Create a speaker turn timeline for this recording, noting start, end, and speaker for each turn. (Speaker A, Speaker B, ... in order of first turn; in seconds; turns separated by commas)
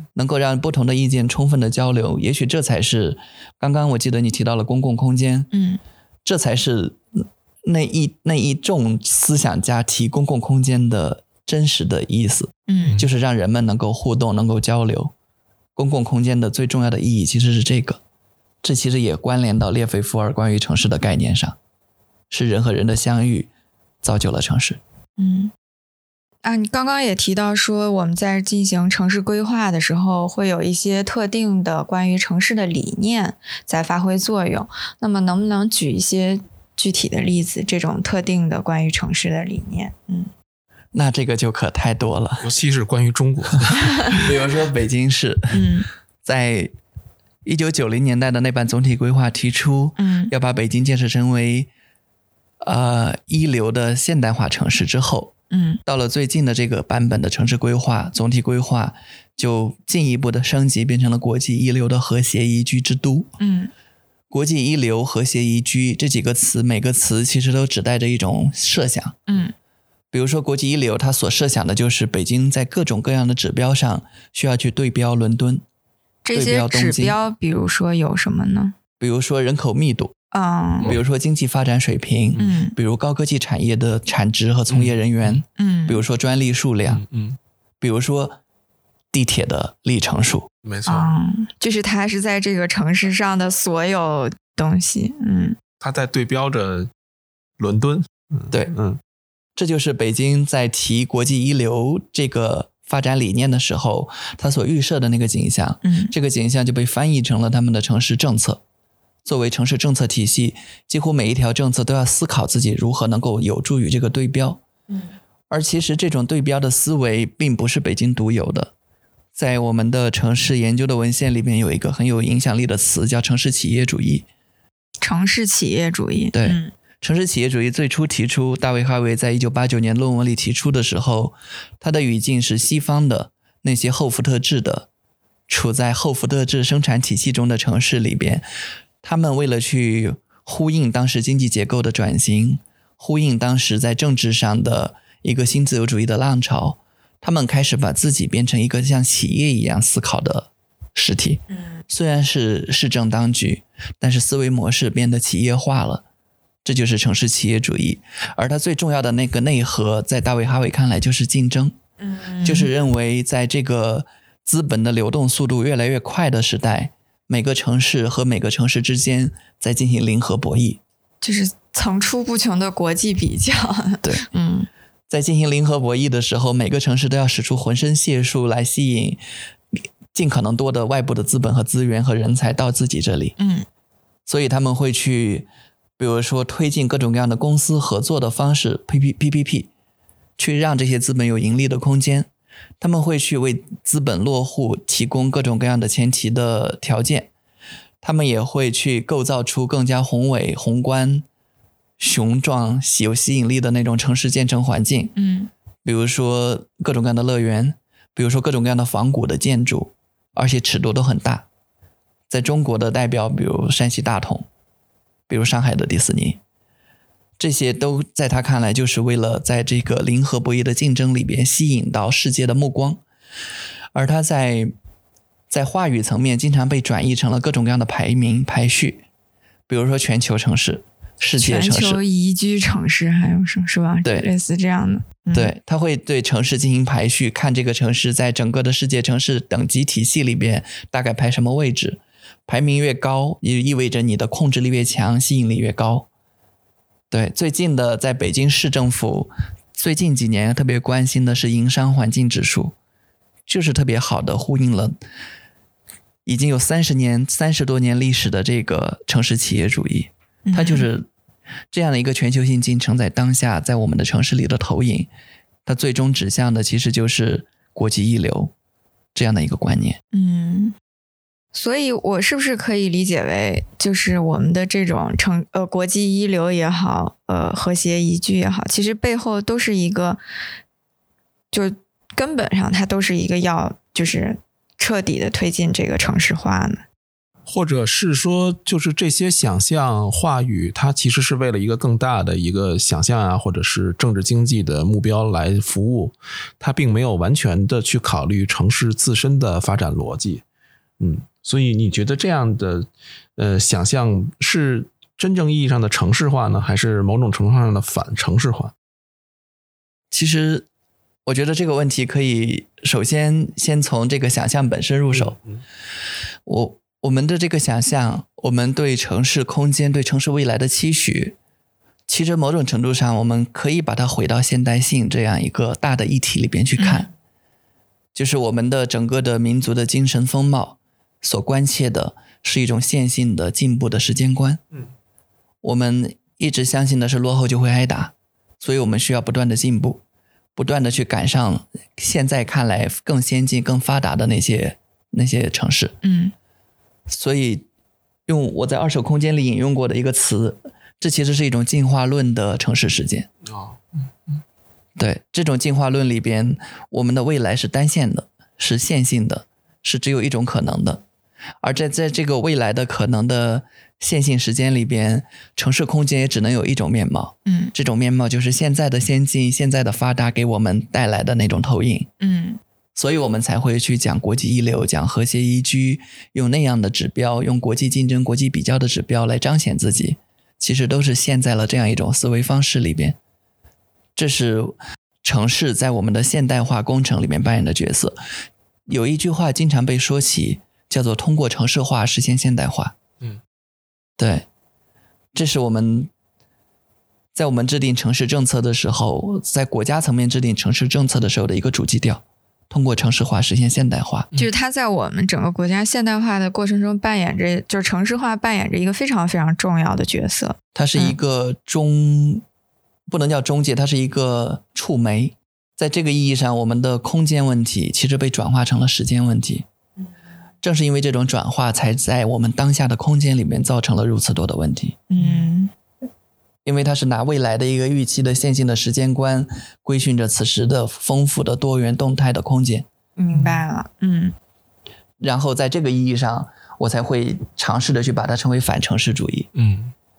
Speaker A: 0.1-5.5, Speaker B: 5.5-5.8, Speaker A: 6.2-15.1, Speaker B: 12.7-13.0, Speaker A: 15.8-18.0, Speaker A: 18.6-21.6, Speaker A: 22.3-23.5, Speaker A: 24.0-24.8, Speaker B: 25.2-25.5, Speaker B: 26.4-40.3, Speaker A: 40.9-42.5, Speaker C: 42.4-44.3, Speaker B: 43.8-44.1, Speaker A: 44.1-45.6, Speaker B: 45.5-45.9, Speaker A: 46.2-46.7, Speaker A: 47.4-51.7, Speaker B: 50.0-50.3, Speaker A: 52.6-63.3, Speaker B: 55.5-55.8, Speaker B: 63.4-63.7, Speaker A: 64.3-69.2, Speaker B: 69.3-69.5, Speaker A: 70.1-75.6, Speaker B: 76.2-78.8, Speaker A: 76.3-77.1, Speaker A: 79.0-80.1, Speaker B: 80.3-81.0, Speaker A: 80.8-87.0, Speaker B: 82.4-82.7, Speaker C: 84.7-85.4, Speaker B: 85.5-86.0, Speaker C: 86.9-87.4, Speaker A: 87.8-88.4, Speaker A: 89.1-90.5, Speaker C: 90.6-91.1, Speaker B: 90.8-95.6, Speaker C: 95.8-96.9, Speaker C: 97.6-99.0, Speaker A: 99.6-108.6, Speaker B: 105.8-106.1, Speaker A: 109.2-114.6, Speaker A: 115.5-118.7, Speaker A: 119.3-124.3, Speaker B: 125.0-126.7, Speaker A: 126.3-134.9, Speaker A: 135.5-138.4, Speaker A: 139.0-156.0, Speaker B: 151.5-151.8, Speaker A: 156.6-161.7, Speaker B: 162.0-162.7, Speaker A: 162.4-170.8, Speaker B: 171.2-174.7, Speaker A: 175.1-179.2, Speaker A: 180.1-183.3, Speaker B: 183.4-183.7, Speaker A: 184.2-189.7, Speaker A: 190.4-192.3, Speaker A: 192.8-197.3, Speaker A: 198.0-201.2, Speaker A: 202.0-205.1, Speaker B: 205.2-205.5, Speaker A: 205.8-211.5, Speaker A: 212.3-214.5, Speaker A: 215.3-216.4, Speaker A: 217.4-223.0, Speaker A: 223.9-224.7, Speaker A: 225.5-229.0, Speaker A: 229.7-232.0, Speaker B: 231.4-235.5, Speaker A: 234.0-234.3, Speaker A: 235.3-246.1, Speaker A: 247.1-252.7, Speaker A: 253.4-255.0, Speaker A: 256.2-261.1, Speaker B: 260.4-260.9, Speaker A: 261.7-265.1, Speaker A: 265.6-268.5, Speaker A: 269.1-270.0, Speaker B: 270.1-270.8, Speaker B: 271.5-280.2, Speaker B: 281.5-286.8, Speaker C: 287.5-300.4, Speaker C: 301.0-308.7, Speaker A: 310.1-310.6, Speaker A: 311.2-315.4, Speaker C: 315.1-315.6, Speaker A: 316.4-321.4, Speaker A: 322.1-327.1, Speaker B: 326.8-327.1, Speaker A: 328.1-334.6, Speaker A: 335.6-340.0, Speaker A: 340.6-345.9, Speaker B: 346.0-346.3, Speaker A: 347.1-347.6, Speaker A: 348.3-353.3, Speaker C: 353.5-353.8, Speaker A: 355.0-361.0, Speaker A: 361.6-372.1, Speaker B: 367.4-367.7, Speaker B: 372.2-372.6, Speaker A: 372.9-383.2, Speaker A: 384.1-388.2, Speaker A: 388.9-392.9, Speaker A: 394.2-394.4, Speaker A: 395.3-396.1, Speaker A: 397.3-404.3, Speaker B: 404.3-411.2, Speaker A: 410.7-412.4, Speaker A: 413.1-419.6, Speaker A: 420.6-425.0, Speaker B: 425.1-425.7, Speaker A: 426.6-432.9, Speaker B: 433.2-434.3, Speaker C: 433.3-433.6, Speaker A: 435.2-439.5, Speaker C: 439.5-439.9